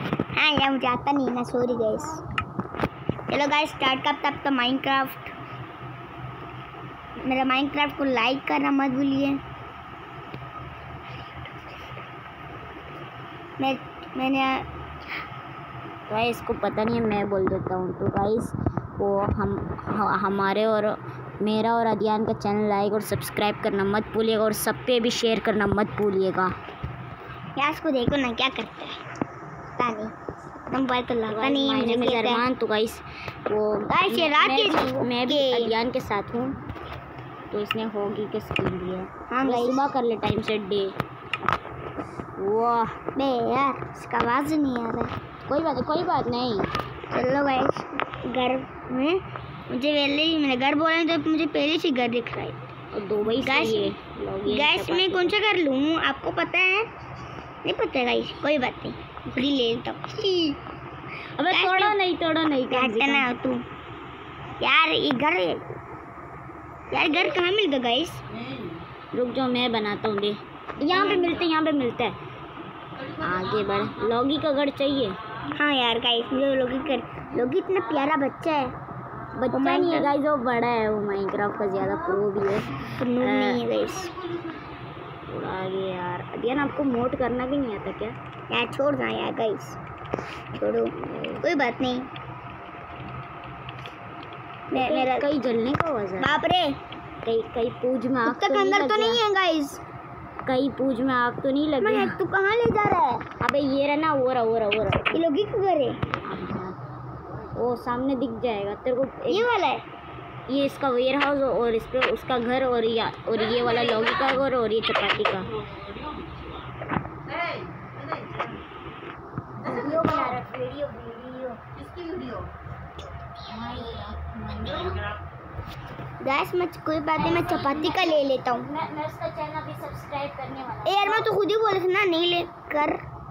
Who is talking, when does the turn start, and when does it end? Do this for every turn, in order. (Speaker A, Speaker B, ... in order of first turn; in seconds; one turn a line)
Speaker A: 0.4-2.2
Speaker A: 3.3-5.3
Speaker A: 7.2-9.4
Speaker A: 13.6-14.7
Speaker B: 16.1-26.5
Speaker A: 27.6-28.9
Speaker A: 29.8-30.1
Speaker A: 30.7-32.4
Speaker B: 31.3-36.6
Speaker A: 33.9-35.7
Speaker B: 37.5-41.0
Speaker A: 39.3-39.9
Speaker B: 42.4-42.9
Speaker A: 43.1-45.1
Speaker B: 45.5-46.7
Speaker A: 47.1-52.6
Speaker B: 52.9-55.4
Speaker A: 53.3-53.9
Speaker A: 54.5-56.9
Speaker A: 57.6-60.6
Speaker B: 61.4-63.3
Speaker A: 61.5-62.0
Speaker A: 62.7-63.6
Speaker A: 64.6-65.6
Speaker A: 66.9-68.2
Speaker B: 69.1-72.1
Speaker A: 70.9-71.3
Speaker B: 73.1-75.2
Speaker A: 75.5-78.7
Speaker B: 79.4-83.6
Speaker A: 79.5-80.1
Speaker A: 82.9-84.1
Speaker B: 85.3-88.1
Speaker A: 88.5-89.8
Speaker A: 90.5-92.1
Speaker B: 90.9-91.4
Speaker A: 94.7-95.3
Speaker B: 94.7-96.4
Speaker A: 96.2-96.8
Speaker B: 97.2-99.2
Speaker A: 98.2-99.8
Speaker B: 100.5-102.2
Speaker A: 101.8-103.2
Speaker B: 103.4-105.2
Speaker A: 105.1-106.0
Speaker B: 106.2-106.7
Speaker B: 107.6-109.5
Speaker A: 109.3-109.8
Speaker B: 110.5-115.5
Speaker B: 119.6-121.6
Speaker B: 123.4-125.1
Speaker A: 126.2-128.7
Speaker B: 127.2-131.3
Speaker A: 130.8-133.0